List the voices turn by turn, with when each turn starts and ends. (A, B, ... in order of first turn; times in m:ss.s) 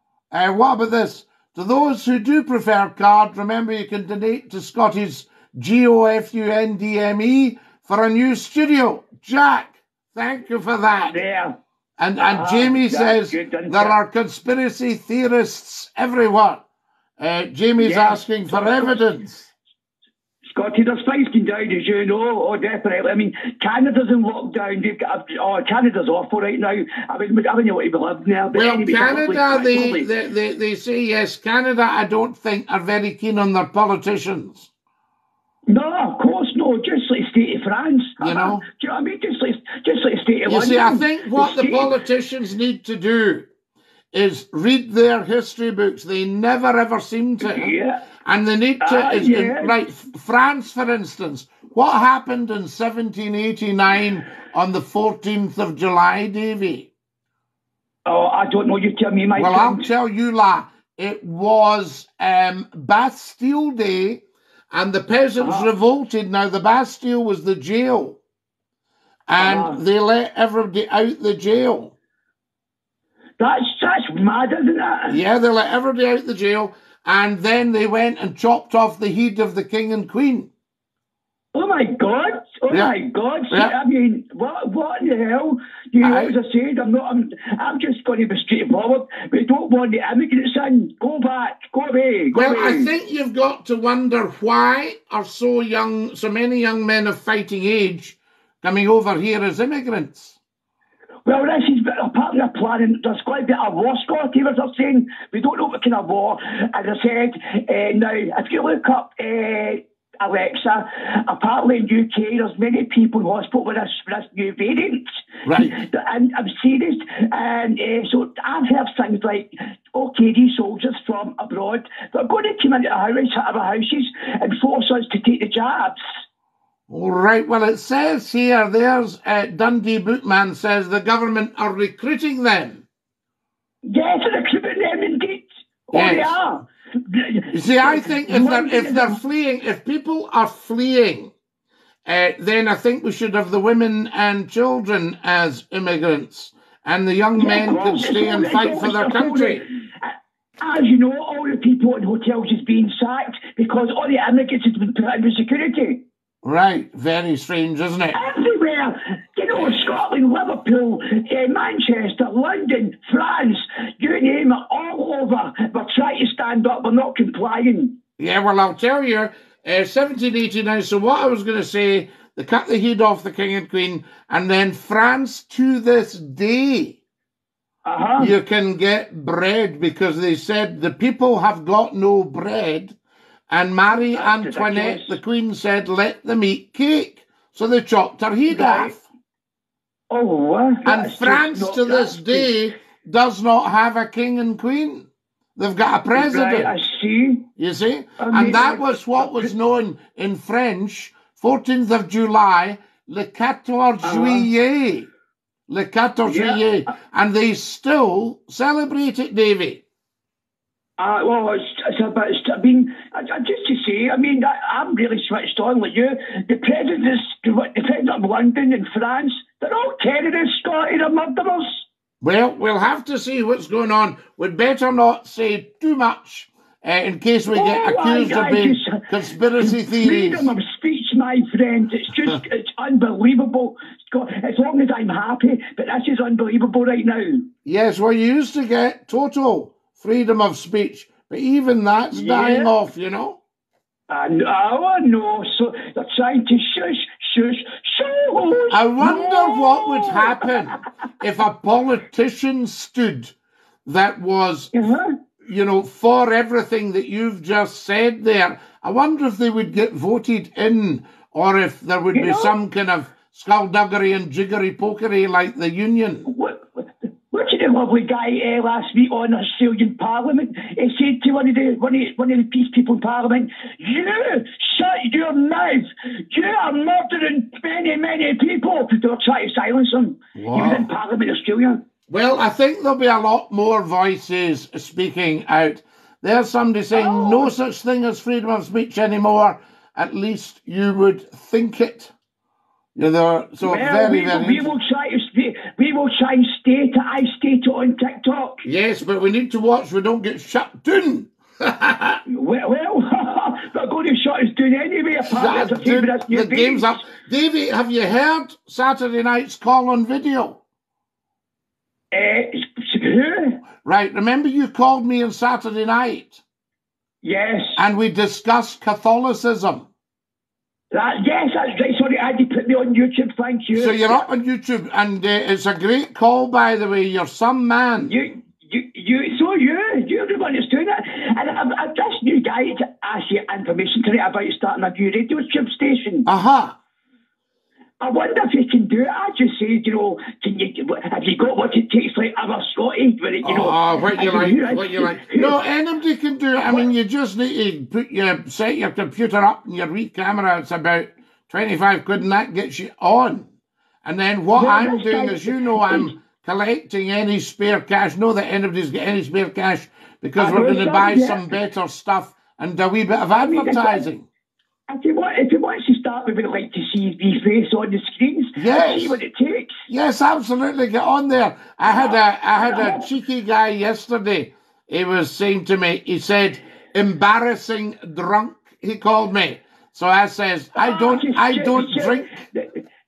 0:00.3-0:11.2 A
0:11.1-0:11.6 B
0:12.0-0:16.6 A
0:12.2-0:14.0 B
0:17.2-0:19.5 A
0:17.8-0:19.0 B
0:20.4-0:30.1 B
0:28.5-0:34.7 A
0:35.7-0:41.9 B
0:38.2-0:38.6 A
0:40.5-0:43.5 A
0:44.1-0:47.7 A
0:47.4-0:48.0 B
0:48.2-0:56.9 A
0:48.8-0:49.8 B
0:58.1-0:59.9 B
0:59.4-1:08.2 A
1:05.4-1:05.7 B
1:09.3-1:11.9 A
1:09.4-1:09.8 B
1:13.4-1:15.2 B
1:15.1-1:20.5 A
1:21.5-1:32.9 B
1:26.0-1:26.3 A
1:32.3-1:40.4 A
1:41.2-2:06.0 B
1:55.4-1:55.8 A
2:06.9-2:12.8 A
2:13.8-2:19.2 B
2:15.9-2:16.4 A
2:17.5-2:21.3 A
2:22.1-2:29.6 A
2:27.4-2:36.0 B
2:36.4-2:38.2 A
2:38.1-2:47.9 B
2:39.6-2:39.9 A
2:48.2-2:57.0 A
2:57.8-2:58.3 B
2:58.2-3:03.0 A
3:03.5-3:09.0 A
3:04.1-3:05.2 B
3:08.5-3:09.0 B
3:10.1-3:12.5 B
3:10.8-3:16.7 A
3:16.1-3:17.5 B
3:17.6-3:25.1 A
3:18.2-3:19.5 B
3:24.0-3:24.5 B
3:25.7-3:29.8 A
3:26.3-3:26.6 B
3:31.0-3:41.8 B
3:42.2-3:50.5 A
3:47.5-3:49.0 B
3:49.6-3:57.4 B
3:57.6-4:03.4 A
4:02.1-4:02.7 B
4:04.1-4:10.5 B
4:08.7-4:13.3 A
4:13.8-4:14.9 A
4:14.7-4:15.1 B
4:15.4-4:26.3 A
4:22.1-4:22.5 B
4:26.3-4:41.8 B
4:40.4-4:40.9 A
4:42.1-4:52.1 A
4:46.9-4:47.5 B
4:53.0-4:54.7 A
4:53.6-4:58.6 B
4:58.6-5:02.2 A
5:02.3-5:07.0 B
5:05.2-5:10.6 A
5:12.1-5:13.6 B
5:13.8-5:16.4 A
5:17.2-5:17.8 B
5:17.8-5:19.9 A
5:20.9-5:24.3 B
5:23.7-5:28.1 A
5:28.0-5:36.3 B
5:36.3-5:36.8 A
5:38.0-5:45.6 B
5:43.4-5:53.5 A
5:54.0-6:04.3 A
5:54.6-5:56.1 B
6:00.4-6:01.5 B
6:03.4-6:04.1 B
6:04.9-6:09.9 B
6:08.6-6:09.2 A
6:09.9-6:22.3 A
6:11.8-6:13.1 B
6:20.8-6:22.8 B